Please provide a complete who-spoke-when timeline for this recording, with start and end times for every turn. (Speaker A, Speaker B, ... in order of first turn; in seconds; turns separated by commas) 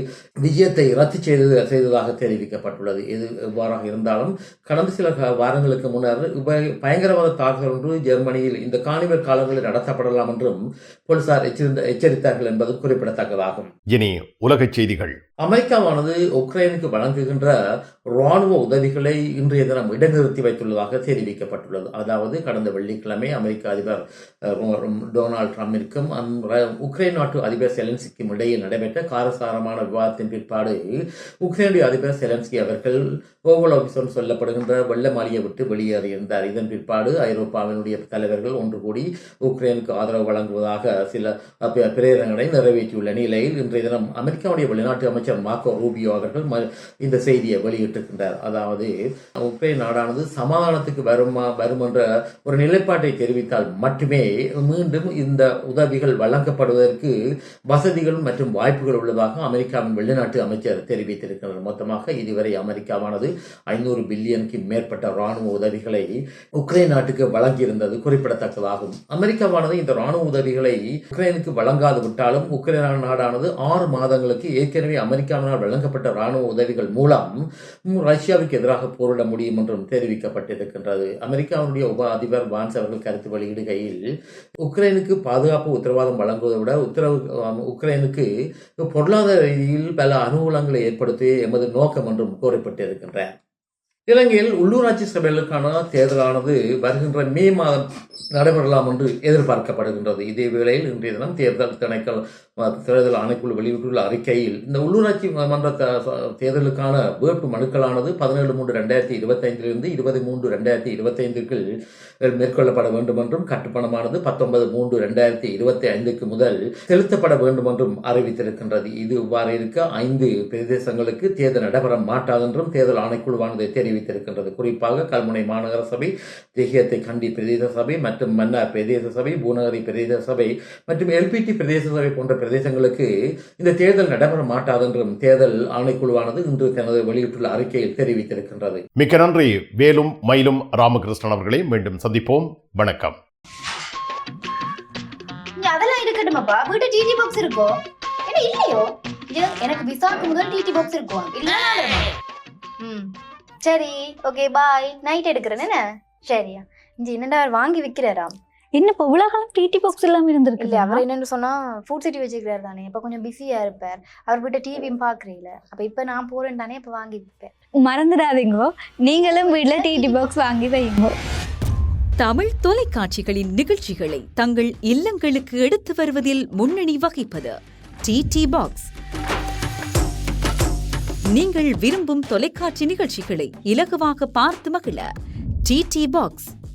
Speaker A: 0.4-13.7, Speaker B: 13.9-15.2, Speaker A: 15.4-17.6, Speaker A: 18.1-30.8, Speaker A: 31.4-57.1, Speaker A: 57.7-77.3, Speaker A: 77.9-84.0, Speaker A: 84.6-88.2, Speaker A: 88.8-93.3, Speaker A: 94.1-111.6, Speaker A: 112.2-138.8, Speaker B: 139.0-143.2, Speaker C: 145.6-152.1, Speaker C: 152.8-153.1, Speaker C: 153.6-158.3, Speaker D: 158.7-161.0, Speaker C: 160.6-167.5, Speaker D: 167.8-171.1, Speaker C: 169.2-170.3, Speaker E: 172.2-178.9, Speaker E: 181.3-185.1, Speaker E: 185.6-186.5